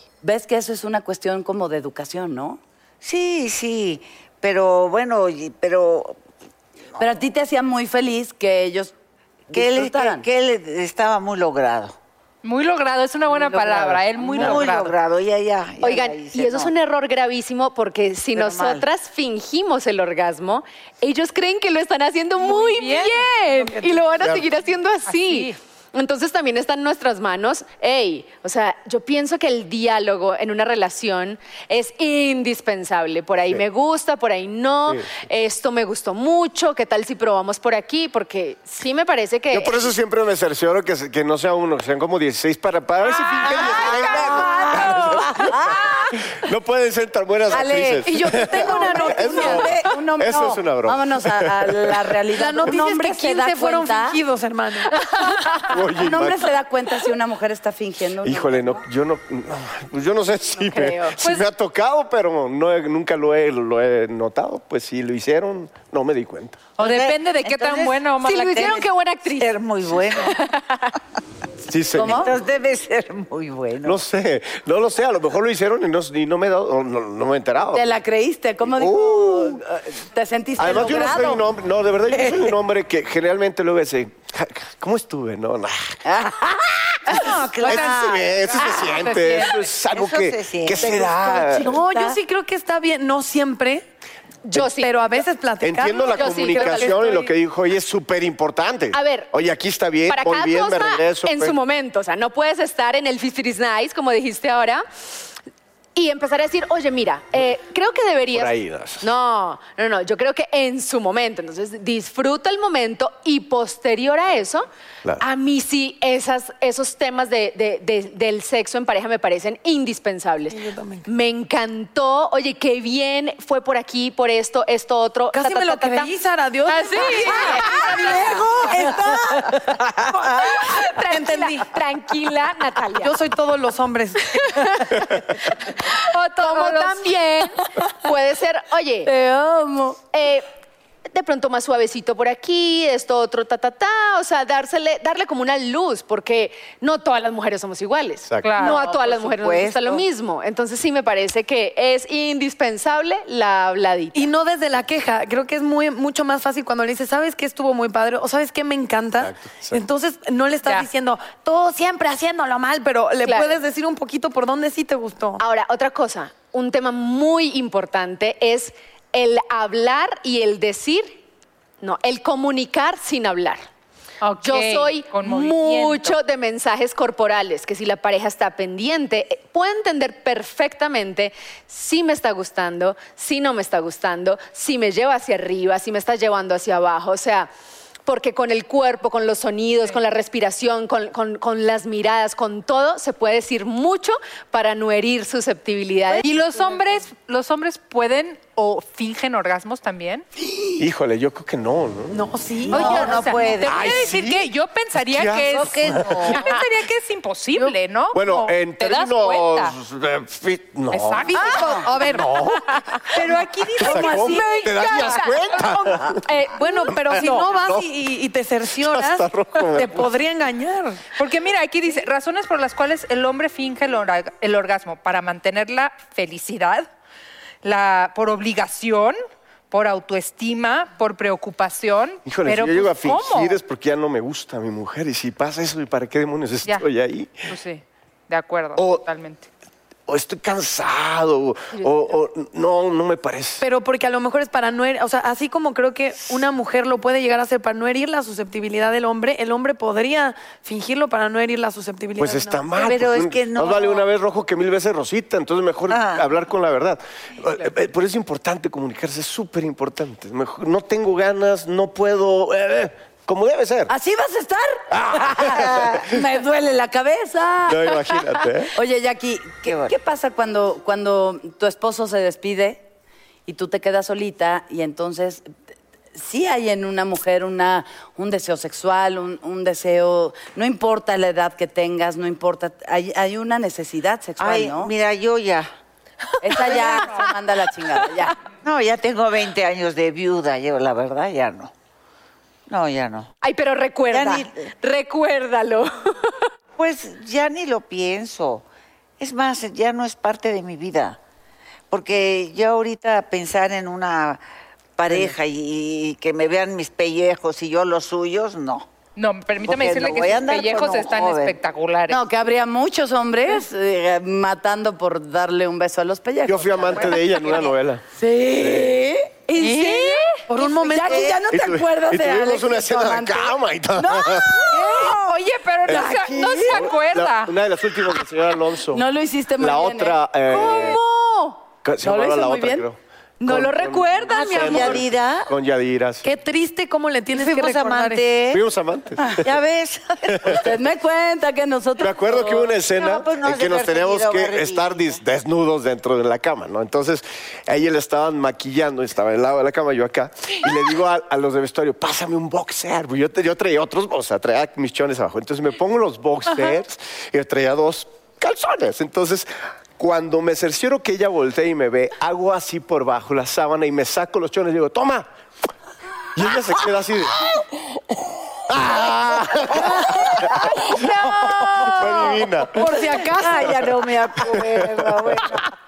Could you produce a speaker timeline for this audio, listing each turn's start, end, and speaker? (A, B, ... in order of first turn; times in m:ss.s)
0:00.2-0:02.6 A
0:03.0-0:06.2 B
0:07.0-0:08.9 A
0:09.5-0:12.0 B
0:09.5-0:10.2 A
0:12.4-0:14.9 C
0:13.6-0:14.0 A
0:14.2-0:16.7 B
0:15.8-0:39.9 D
0:18.3-0:18.8 B
0:22.5-0:23.3 C
0:23.5-0:24.1 E
0:25.0-0:25.6 C
0:39.5-0:52.1 F
0:43.4-0:43.9 D
0:43.6-0:45.8 A
0:47.5-0:54.2 A
0:47.6-0:49.8 E
0:52.3-0:54.9 E
0:55.7-0:56.5 F
0:55.9-0:58.8 A
0:58.2-1:06.7 F
1:00.6-1:01.2 D
1:06.8-1:08.8 C
1:06.8-1:10.4 B
1:08.2-1:09.5 D
1:10.1-1:10.9 D
1:11.7-1:12.2 F
1:11.9-1:12.3 A
1:12.0-1:14.0 B
1:13.8-1:17.9 F
1:17.7-1:21.4 A
1:18.7-1:19.6 F
1:20.6-1:26.0 F
1:26.0-1:26.6 A
1:26.9-1:31.7 F
1:27.1-1:29.3 B
1:27.6-1:28.0 C
1:28.6-1:29.5 C
1:29.9-1:31.6 B
1:31.4-1:33.8 E
1:34.4-1:34.9 D
1:34.5-1:37.3 E
1:35.6-1:41.6 F
1:36.1-1:37.0 D
1:38.9-1:39.3 D
1:40.1-1:44.8 D
1:45.9-1:54.7 D
1:48.3-1:49.1 F
1:55.2-2:06.1 D
2:00.5-2:01.0 E
2:05.3-2:11.7 E
2:06.7-2:08.2 C
2:06.9-2:08.2 D
2:10.4-2:13.1 D
2:13.0-2:14.4 E
2:14.4-2:19.1 D
2:16.0-2:17.2 C
2:19.0-2:20.0 A
2:20.1-2:20.5 D
2:21.1-2:34.3 D
2:28.3-2:28.6 F
2:28.4-2:28.8 C
2:28.6-2:30.0 B
2:34.1-2:45.4 E
2:39.2-2:39.8 F
2:43.2-2:43.5 D
2:45.4-2:51.2 D
2:51.8-2:53.6 D
2:54.2-2:56.2 C
2:54.4-3:07.5 D
3:08.0-3:16.3 D
3:16.2-3:20.2 C
3:20.8-3:22.2 F
3:22.1-3:23.6 E
3:22.7-3:24.0 B
3:22.7-3:29.7 C
3:23.6-3:24.5 F
3:25.0-3:26.4 F
3:25.5-3:26.6 B
3:28.1-3:32.7 F
3:30.9-3:37.4 C
3:31.3-3:32.4 E
3:33.1-3:35.3 E
3:33.8-3:36.2 F
3:36.5-3:41.0 E
3:36.9-3:37.9 F
3:38.8-3:40.1 F
3:41.2-3:46.9 C
3:47.6-3:49.2 C
3:49.7-3:53.6 C
3:52.2-3:57.5 F
3:57.5-3:59.5 C
3:58.8-3:59.0 F
4:00.1-4:03.6 F
4:01.7-4:02.1 D
4:03.6-4:12.7 E
4:12.2-4:23.9 F
4:12.7-4:14.1 B
4:15.9-4:16.2 B
4:23.9-4:32.9 A
4:24.9-4:25.9 F
4:25.6-4:26.0 B
4:27.6-4:28.7 F
4:29.6-4:29.9 B
4:33.4-4:35.5 A
4:36.1-4:44.9 A
4:44.4-4:45.7 B
4:46.4-4:48.4 A
4:48.6-4:51.7 B
4:52.7-4:53.3 B
4:53.4-4:56.5 D
4:54.1-4:54.7 B
4:56.8-4:58.6 B
4:59.2-5:01.2 B
5:01.9-5:04.4 B
5:05.0-5:08.9 B
5:09.2-5:12.2 C
5:09.6-5:11.6 B
5:12.1-5:17.2 A
5:16.4-5:18.0 F
5:18.1-5:25.2 A
5:18.6-5:19.0 F
5:19.6-5:20.4 C
5:19.6-5:21.4 E
5:21.0-5:21.4 B
5:21.5-5:24.7 F
5:24.7-5:27.5 C
5:25.8-5:29.0 F
5:28.9-5:31.0 A
5:29.6-5:31.0 F
5:30.5-5:31.5 D
5:31.8-5:36.2 F
5:32.0-5:32.9 A
5:33.4-5:34.9 D
5:34.3-5:35.5 B
5:34.3-5:35.0 E
5:36.2-5:38.2 E
5:37.3-5:38.6 B
5:38.5-5:39.4 F
5:39.4-5:40.6 B
5:40.3-5:40.6 F
5:40.5-5:42.7 A
5:42.0-6:05.3 F
5:42.9-5:45.2 B
6:06.3-6:07.4 F
6:08.7-6:10.6 F
6:11.8-6:12.9 F
6:12.8-6:13.7 E
6:13.0-6:15.6 B
6:14.5-6:15.1 F